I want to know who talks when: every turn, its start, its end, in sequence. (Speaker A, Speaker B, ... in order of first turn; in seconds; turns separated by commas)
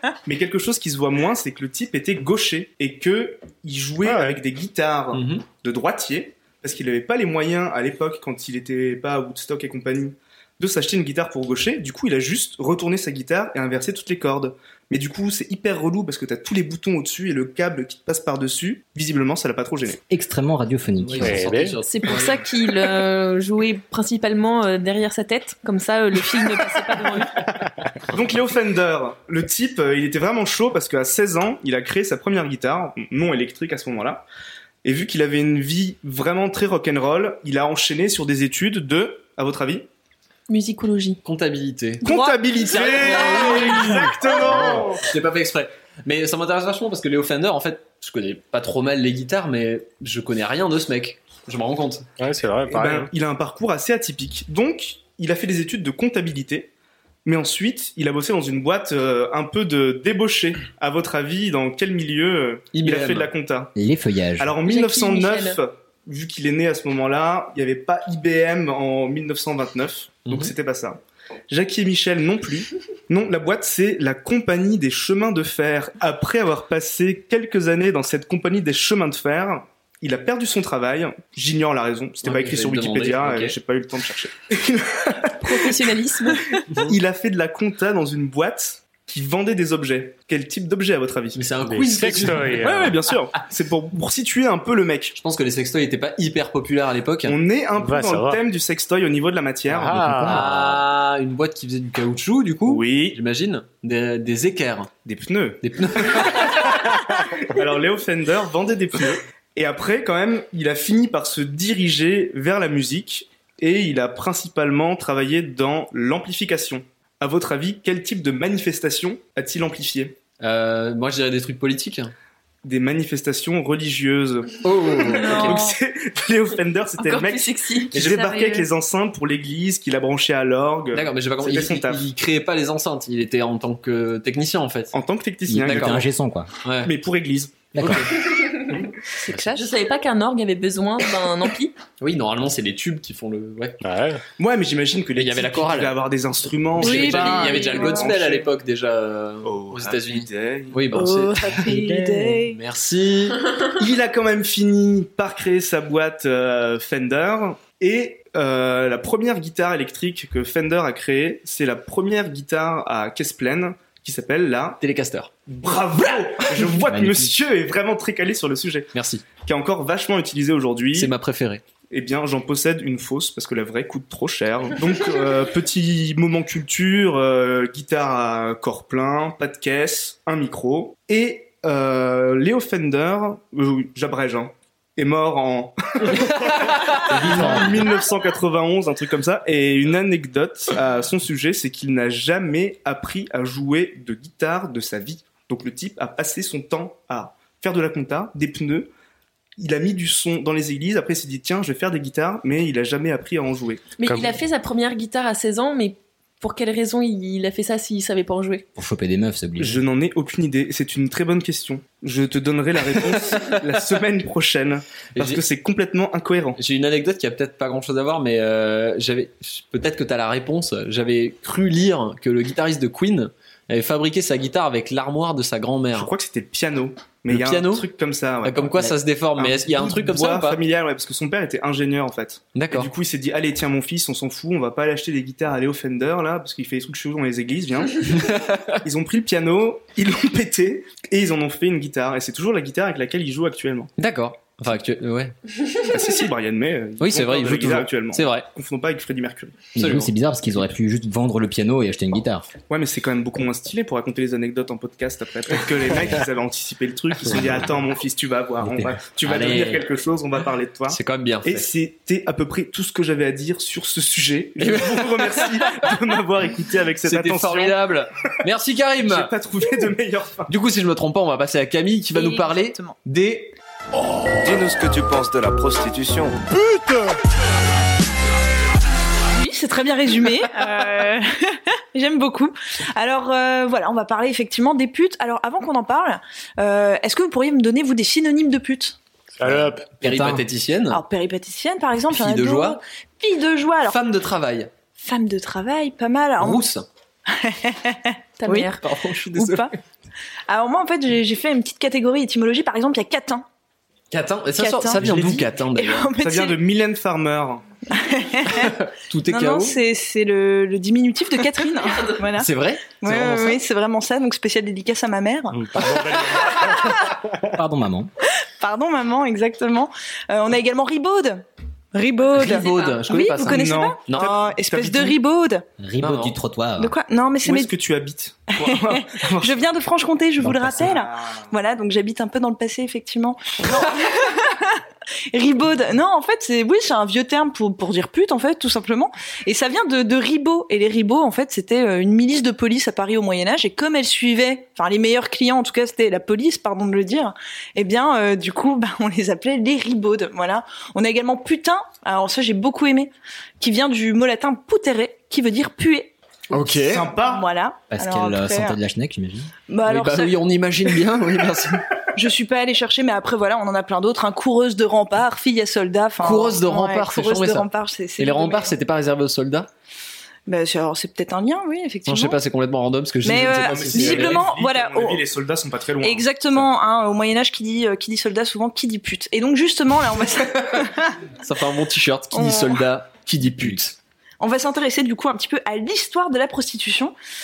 Speaker A: 0.2-20.0, Speaker B: 4.0-4.4, Speaker C: 5.1-5.4, Speaker D: 20.1-21.4, Speaker C: 21.0-22.4, Speaker B: 21.2-21.8, Speaker E: 21.8-27.4, Speaker A: 28.1-34.2, Speaker A: 34.8-39.8, Speaker E: 40.5-41.2, Speaker C: 41.2-52.1, Speaker A: 42.0-45.0, Speaker F: 42.0-42.3, Speaker E: 43.3-43.8, Speaker B: 52.2-53.1, Speaker A: 52.7-56.7, Speaker A: 57.2-63.7, Speaker C: 62.7-63.3, Speaker D: 63.8-64.6, Speaker A: 64.4-85.9, Speaker E: 64.6-65.6, Speaker C: 70.2-70.5, Speaker C: 82.2-83.5, Speaker E: 85.4-86.6, Speaker A: 86.7-91.5, Speaker C: 91.3-92.9, Speaker B: 91.7-93.0, Speaker A: 92.5-95.2, Speaker C: 95.2-97.4, Speaker A: 97.2-100.0, Speaker B: 97.8-98.4, Speaker B: 99.7-100.5, Speaker D: 99.8-100.5, Speaker C: 100.2-104.9, Speaker A: 102.6-103.2, Speaker A: 105.0-120.2, Speaker C: 105.6-106.8, Speaker C: 120.4-122.1, Speaker A: 122.6-132.0, Speaker C: 124.6-125.6, Speaker F: 125.2-125.8, Speaker E: 127.0-128.7, Speaker C: 130.9-134.9, Speaker A: 134.9-136.1, Speaker D: 135.5-136.5, Speaker C: 135.5-136.1, Speaker C: 136.6-136.9, Speaker A: 136.8-138.0, Speaker D: 137.7-138.1, Speaker E: 138.3-138.8, Speaker F: 139.1-139.8, Speaker E: 139.5-141.7, Speaker C: 142.0-143.8, Speaker B: 143.8-144.2, Speaker A: 144.4-148.5, Speaker C: 145.1-146.0, Speaker C: 146.7-151.7, Speaker F: 146.8-148.1, Speaker E: 146.9-147.8, Speaker A: 149.4-150.8, Speaker F: 150.9-152.6, Speaker D: 151.6-152.4, Speaker C: 152.5-153.5, Speaker A: 153.7-164.8, Speaker C: 164.8-165.3, Speaker A: 165.5-171.1, Speaker D: 166.8-167.3, Speaker C: 168.9-169.2, Speaker C: 170.9-171.6, Speaker A: 171.9-198.9, Speaker D: 187.1-187.9, Speaker A: 199.6-203.9, Speaker E: 204.0-208.6, Speaker B: 204.0-204.3, Speaker D: 208.7-209.8, Speaker A: 209.6-216.6, Speaker C: 213.0-213.6, Speaker C: 215.2-215.4, Speaker C: 216.6-226.1, Speaker A: 225.9-243.9, Speaker C: 227.3-227.9, Speaker C: 228.4-230.6, Speaker C: 232.5-232.9, Speaker C: 238.2-238.7, Speaker C: 244.0-245.3, Speaker A: 245.8-249.6, Speaker C: 247.0-248.5, Speaker D: 249.7-252.5, Speaker C: 249.8-250.1, Speaker A: 252.7-267.8, Speaker D: 258.6-259.0, Speaker C: 259.2-259.9, Speaker C: 260.9-261.7, Speaker C: 264.6-265.7, Speaker C: 267.0-269.3, Speaker A: 269.0-270.5, Speaker C: 270.5-273.5, Speaker F: 272.1-272.9, Speaker G: 274.4-276.4, Speaker F: 279.3-289.0, Speaker B: 289.4-290.0, Speaker C: 290.0-291.0, Speaker D: 290.1-290.4, Speaker F: 290.9-294.0, Speaker C: 292.1-292.8, Speaker C: 293.9-294.7, Speaker F: 295.0-296.6, Speaker C: 296.4-296.8, Speaker F: 297.3-299.7, Speaker E: 298.4-298.8, Speaker C: 298.8-299.7, Speaker F: 300.5-303.4, Speaker C: 304.1-306.1, Speaker F: 304.6-306.6, Speaker A: 306.2-307.6, Speaker F: 307.9-308.7, Speaker C: 308.5-309.8, Speaker F: 309.3-315.8, Speaker C: 312.3-313.6, Speaker B: 315.5-317.0, Speaker C: 315.8-316.4, Speaker F: 316.6-317.1, Speaker D: 317.4-318.1, Speaker F: 318.4-321.4, Speaker F: 321.9-325.6, Speaker C: 322.3-324.3, Speaker E: 322.5-323.0, Speaker A: 323.4-325.2, Speaker D: 325.8-326.9, Speaker C: 326.0-326.4, Speaker F: 326.8-327.7, Speaker A: 327.4-329.6, Speaker F: 328.6-356.1, Speaker D: 330.4-330.8, Speaker A: 330.6-331.4, Speaker C: 356.5-357.1, Speaker A: 356.7-357.5, Speaker F: 357.2-358.8, Speaker D: 357.9-359.5, Speaker F: 359.7-360.4, Speaker C: 359.9-361.8, Speaker F: 362.1-368.7, Speaker C: 366.2-369.7, Speaker F: 370.5-372.4, Speaker C: 372.1-374.5, Speaker F: 373.2-375.2, Speaker A: 373.3-376.6, Speaker F: 376.0-381.2, Speaker C: 380.5-380.8, Speaker C: 381.4-383.9, Speaker F: 382.3-382.8, Speaker F: 384.4-387.1